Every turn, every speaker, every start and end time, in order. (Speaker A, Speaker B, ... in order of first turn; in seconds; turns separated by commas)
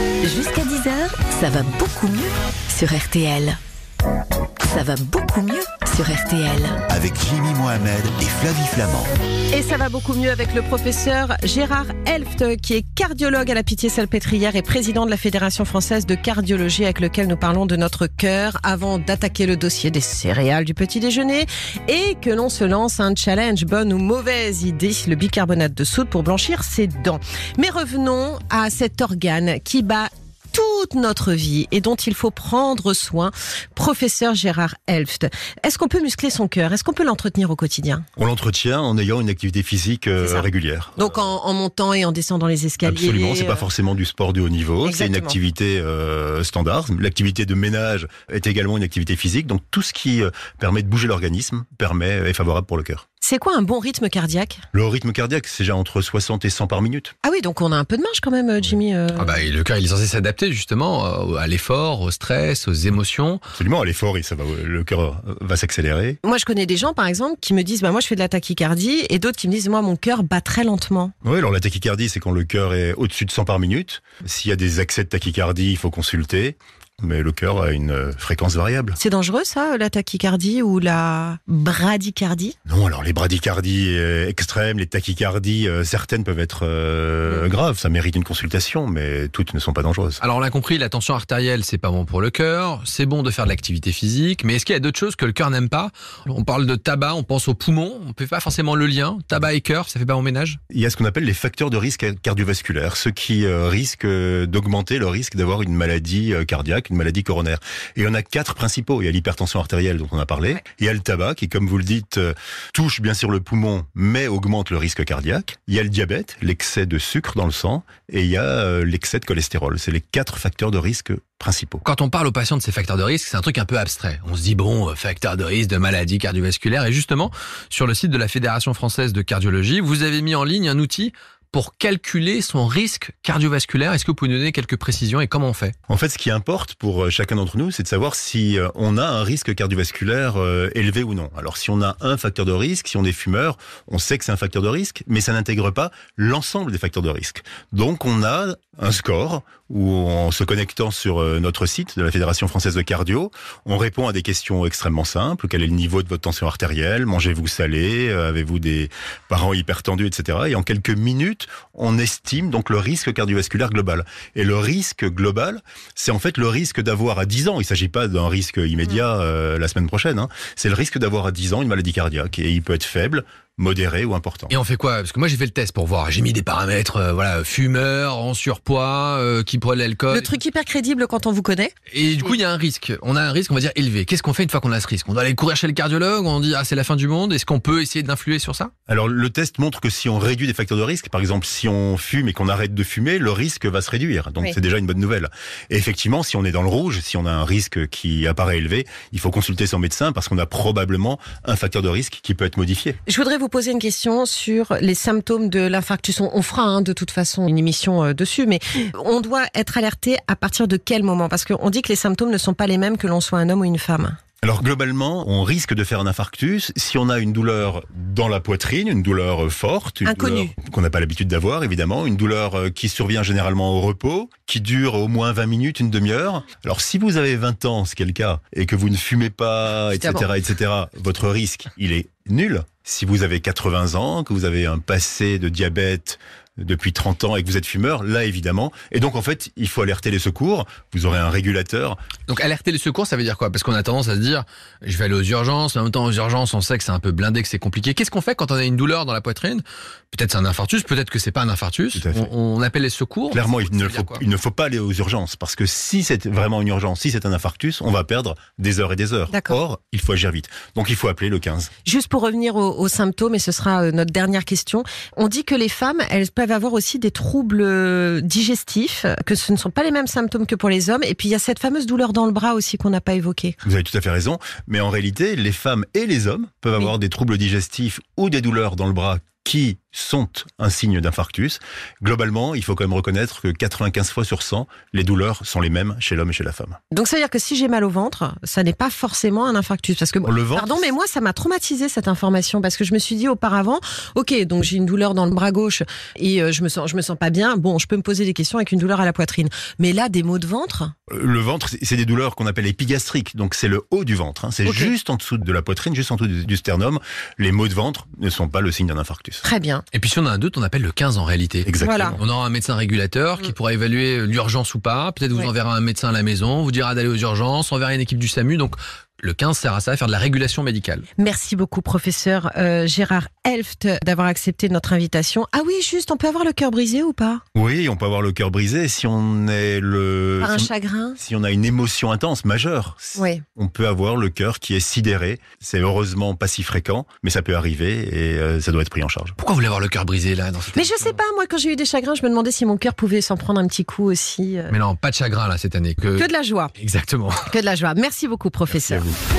Speaker A: 0.2-3.6, Speaker A: 4.7-6.8, Speaker B: 6.9-9.1, Speaker C: 9.5-38.1, Speaker D: 38.2-41.1, Speaker C: 40.2-43.6, Speaker D: 42.8-53.0, Speaker C: 44.8-45.4, Speaker C: 53.2-54.6, Speaker D: 54.7-57.1, Speaker C: 57.2-59.4, Speaker E: 59.2-63.4, Speaker D: 63.5-66.2, Speaker C: 66.2-71.1, Speaker D: 71.2-79.0, Speaker C: 79.0-82.5, Speaker D: 82.7-90.2, Speaker E: 90.2-100.6, Speaker D: 100.7-121.8, Speaker E: 121.8-135.7, Speaker D: 135.9-174.5, Speaker E: 174.5-180.3, Speaker C: 180.1-181.7, Speaker E: 181.9-188.7, Speaker D: 188.9-203.0, Speaker C: 203.1-214.2, Speaker D: 214.4-242.0, Speaker C: 220.1-220.5, Speaker C: 229.9-230.2, Speaker E: 242.3-254.2, Speaker D: 251.9-252.3, Speaker D: 253.3-261.7, Speaker C: 259.3-259.6, Speaker C: 261.9-273.6, Speaker D: 273.6-286.8, Speaker C: 286.9-300.9, Speaker D: 290.2-290.7, Speaker D: 301.1-309.4, Speaker C: 304.6-304.9, Speaker C: 309.4-309.8, Speaker E: 309.9-321.1, Speaker D: 311.6-312.2, Speaker C: 311.8-312.2, Speaker C: 321.2-327.4, Speaker D: 327.6-339.4, Speaker C: 330.4-331.2, Speaker C: 333.1-333.4, Speaker E: 339.4-341.2, Speaker C: 340.8-344.7, Speaker E: 344.7-347.5, Speaker C: 346.1-346.7, Speaker C: 347.5-349.1, Speaker E: 348.7-349.1